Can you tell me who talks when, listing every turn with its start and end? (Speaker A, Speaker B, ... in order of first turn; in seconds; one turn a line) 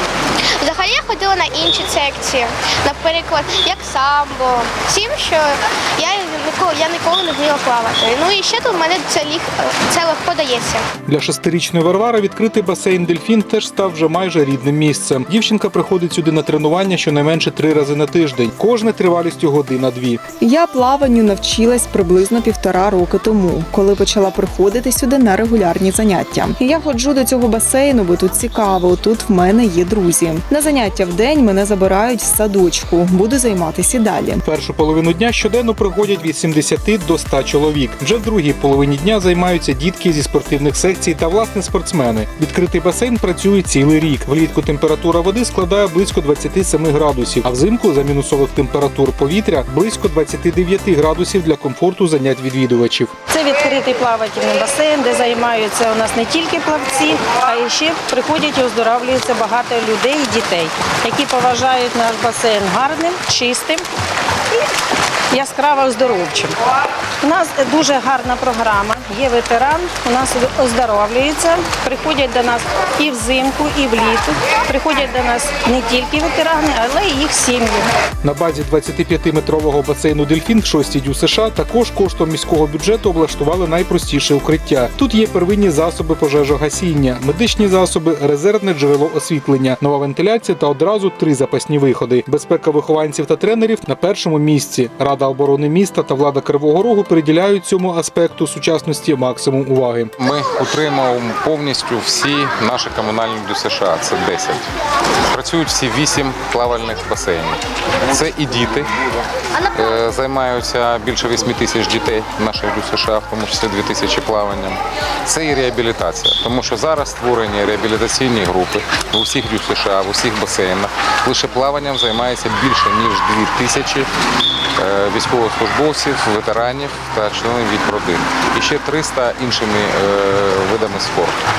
Speaker A: 0.6-10.8
Speaker B: 11.1-20.2
Speaker C: 20.4-34.5
Speaker B: 34.5-53.1
Speaker D: 53.3-63.9
Speaker D: 65.3-66.6
Speaker D: 67.2-77.9
Speaker B: 78.2-100.1
Speaker E: 100.2-104.7
Speaker E: 105.3-108.9
Speaker E: 109.7-124.1
Speaker E: 124.8-131.4